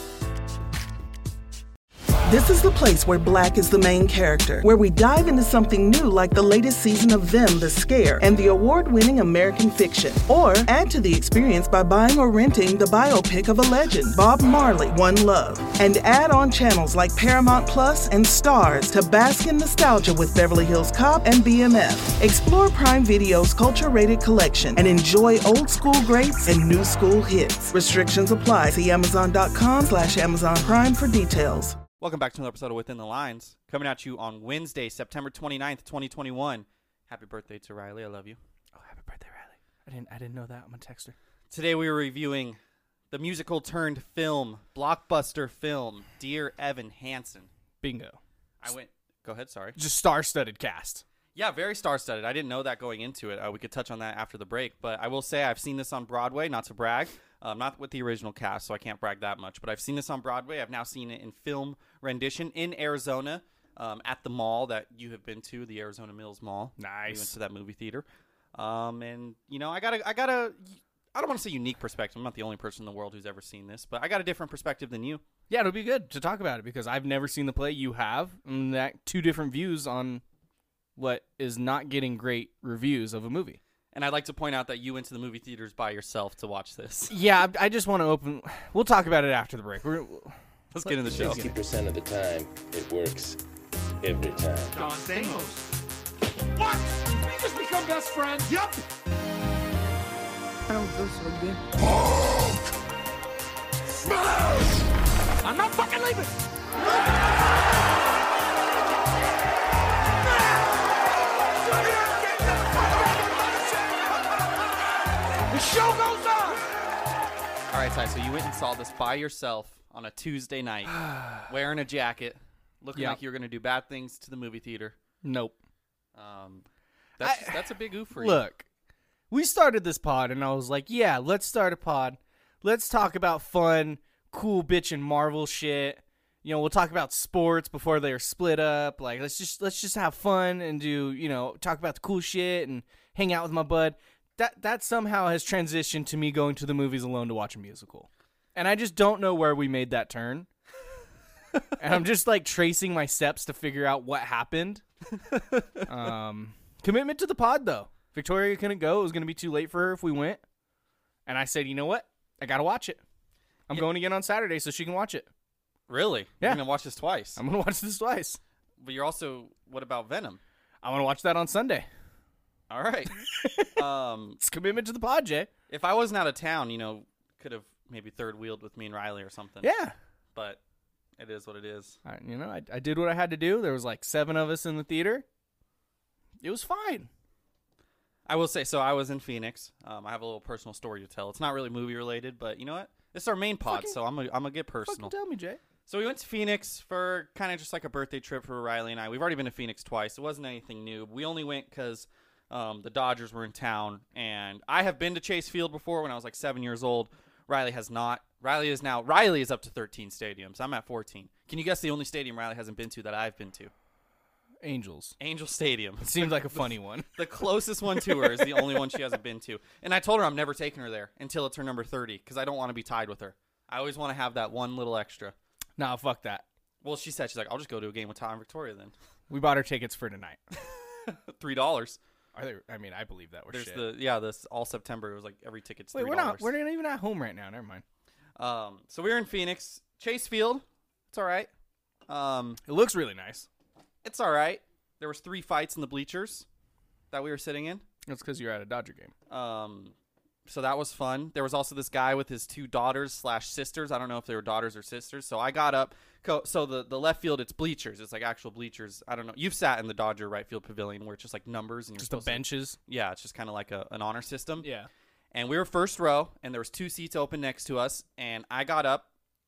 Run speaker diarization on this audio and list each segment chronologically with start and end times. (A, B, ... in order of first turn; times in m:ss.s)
0:02.3-0:31.8 A
0:32.0-0:38.4 B
0:38.8-0:41.2 C
0:41.5-0:42.6 B
0:43.1-0:47.5 B
0:47.8-0:48.2 C
0:48.6-0:49.8 B
0:49.8-0:51.0 C
0:51.4-1:15.2 B
1:06.8-1:07.4 C
1:15.5-1:20.2 C
1:21.0-1:23.6 C
1:23.9-1:27.1 B
1:27.1-1:31.6 C
1:30.7-1:31.4 B
1:31.2-1:33.4 D
1:34.0-1:34.9 D
1:34.7-1:35.7 E
1:36.6-1:38.8 E
1:40.7-1:41.6 E
1:44.1-1:44.8 E
1:45.4-1:47.5 E
1:50.3-1:50.7 E
1:51.4-1:54.4 E
1:55.5-1:56.6 E
1:57.7-2:05.0 B
2:05.2-2:05.6 C
2:06.2-2:06.6 B
2:07.2-2:08.4 B
2:07.2-2:08.7 C
2:09.3-2:30.5 C
2:31.8-2:34.8 C
2:35.4-2:35.8 B
2:35.9-2:40.4 C
2:41.3-2:43.0 C
2:43.7-2:45.3 C
2:45.9-2:47.4 B
2:47.4-2:48.4 C
2:48.8-2:50.4 B
2:50.8-2:51.9 C
2:52.7-2:54.4 B
2:53.2-2:53.8 C
2:54.4-2:55.5 C
2:55.7-2:59.7 B
2:59.6-3:00.0 C
3:01.2-3:02.0 B
3:02.0-3:05.2 C
3:06.4-3:07.1 C
3:08.3-3:15.1 B
3:13.6-3:14.0 C
3:14.9-3:15.6 C
3:15.9-3:33.7 B
3:34.6-3:35.2 C
3:35.2-3:45.4 B
3:36.0-3:37.2 C
3:38.0-3:39.0 C
3:45.8-3:46.5 C
3:46.8-3:48.9 B
3:49.3-3:50.4 C
3:50.6-3:52.0 B
3:52.4-3:53.9 C
3:53.5-3:56.5 B
3:55.9-3:57.8 C
3:58.4-4:01.5 B
4:02.1-4:02.6 B
4:02.6-4:03.5 C
4:04.0-4:06.5 B
4:07.1-4:07.8 B
4:08.1-4:09.1 C
4:09.3-4:10.0 B
4:10.5-4:24.7 B
4:22.0-4:22.8 C
4:24.6-4:24.9 C
4:25.3-4:29.1 B